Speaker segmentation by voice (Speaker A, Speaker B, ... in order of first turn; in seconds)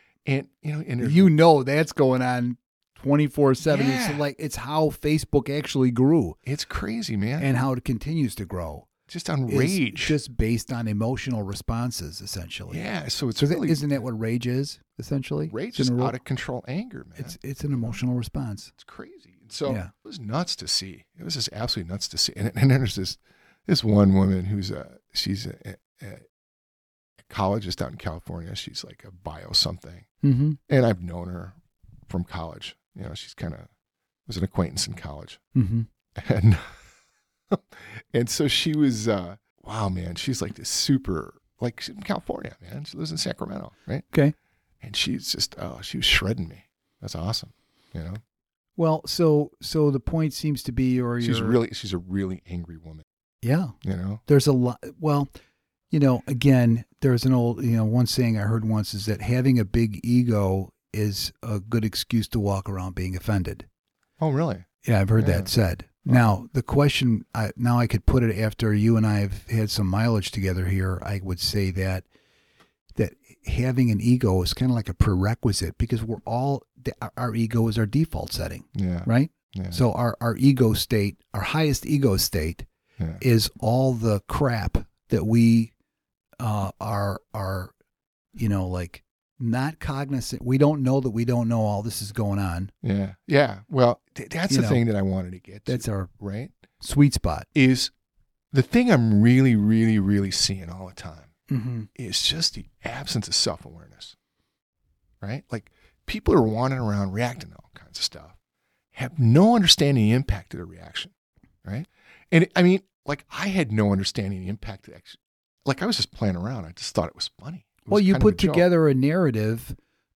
Speaker A: 0.2-1.3, 3.6-4.3, 6.5-7.5, 9.1-10.2, 12.7-13.8, 15.5-17.4, 18.8-26.2, 27.2-30.1, 30.7-31.6, 32.1-33.7, 34.3-35.4, 36.2-36.8, 37.5-44.1, 44.8-48.2, 51.2-53.0, 53.8-54.2, 64.2-64.7, 65.2-65.5, 78.8-79.8, 92.8-96.5, 97.5-97.9, 98.5-101.3, 102.0-104.2, 105.2-108.4, 108.9-111.1, 111.6-118.7
Speaker B: 1.0-6.4, 7.4-8.9, 9.5-12.8, 13.4-16.2, 17.2-18.7, 19.6-19.9, 30.2-30.6, 35.5-35.9, 48.8-51.6, 53.4-53.8, 54.3-55.3, 55.9-63.7, 64.8-72.0, 73.0-82.7, 83.2-85.7, 86.4-87.7, 88.3-92.7, 94.5-94.8, 95.7-96.1, 96.8-97.5, 101.5-101.9, 117.9-119.8